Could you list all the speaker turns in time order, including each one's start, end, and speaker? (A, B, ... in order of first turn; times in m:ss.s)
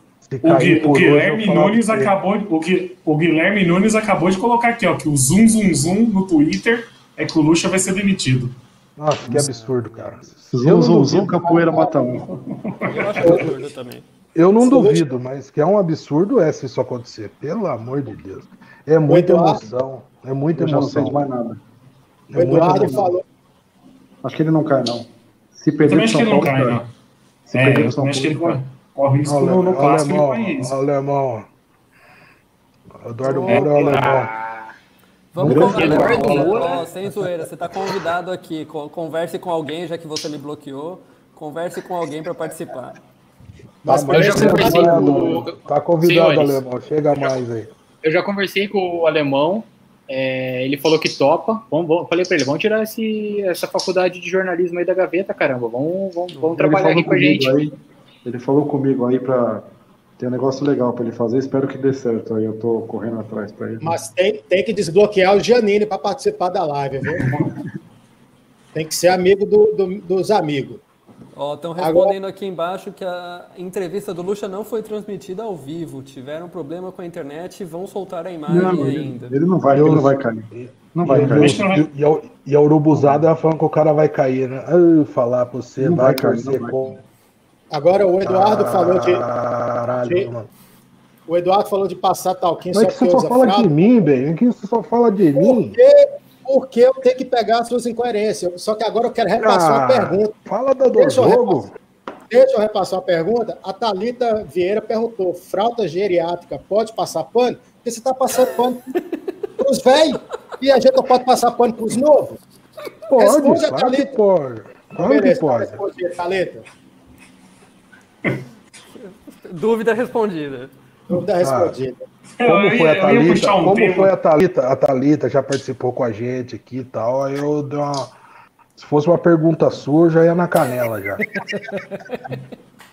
0:00.2-0:02.1 A
0:00.4-0:08.5 B
0:09.0-0:11.4 A
0:09.3-0:10.2 C
0:10.5-0:12.3 D
0:11.3-0:12.1 E
0:12.4-0:13.4 B
0:12.8-0:14.0 C
0:13.2-0:13.6 E
0:14.3-0:21.3 A
0:14.6-0:15.1 E
0:19.1-0:19.7 E
0:20.5-0:21.6 D
0:22.3-0:23.1 A
0:22.4-0:23.2 E
0:22.6-0:23.1 D
0:24.2-0:26.8 D
0:25.8-0:26.9 B
0:27.5-0:28.6 D
0:27.5-0:30.8 B
0:29.2-0:31.5 A
0:33.0-0:34.3 A
0:33.2-0:33.6 C
0:33.4-0:34.3 B
0:33.8-0:34.7 F
0:35.3-0:43.0 C
0:35.4-0:36.6 A
0:35.4-0:36.4 D
0:35.8-0:36.9 F
0:35.9-0:36.3 B
0:43.8-0:45.5 E
0:43.8-0:47.7 A
0:44.1-0:45.5 F
0:44.4-0:45.1 D
0:46.0-0:46.6 F
0:48.0-0:57.5 F
0:56.3-0:56.6 C
0:56.6-0:57.7 D
0:58.2-1:03.9 D
1:03.8-1:07.3 E
1:08.7-1:10.8 E
1:11.4-1:19.4 C
1:11.8-1:12.1 E
1:18.5-1:21.7 D
1:19.7-1:27.0 A
1:21.3-1:21.9 B
1:25.8-1:27.0 D
1:27.7-1:29.2 E
1:28.2-1:30.5 A
1:31.3-1:33.9 E
1:32.7-1:35.8 A
1:35.3-1:40.3 E
1:39.4-1:41.7 A
1:40.9-1:41.7 E
1:42.3-1:49.0 E
1:49.6-1:52.4 E
1:53.1-1:55.8 A
1:53.2-1:54.1 E
1:54.9-1:56.6 E
1:59.0-2:00.7 C
2:01.1-2:02.0 E
2:01.4-2:01.7 A
2:02.4-2:04.1 B
2:02.4-2:08.1 A
2:08.8-2:11.4 A
2:11.4-2:12.4 C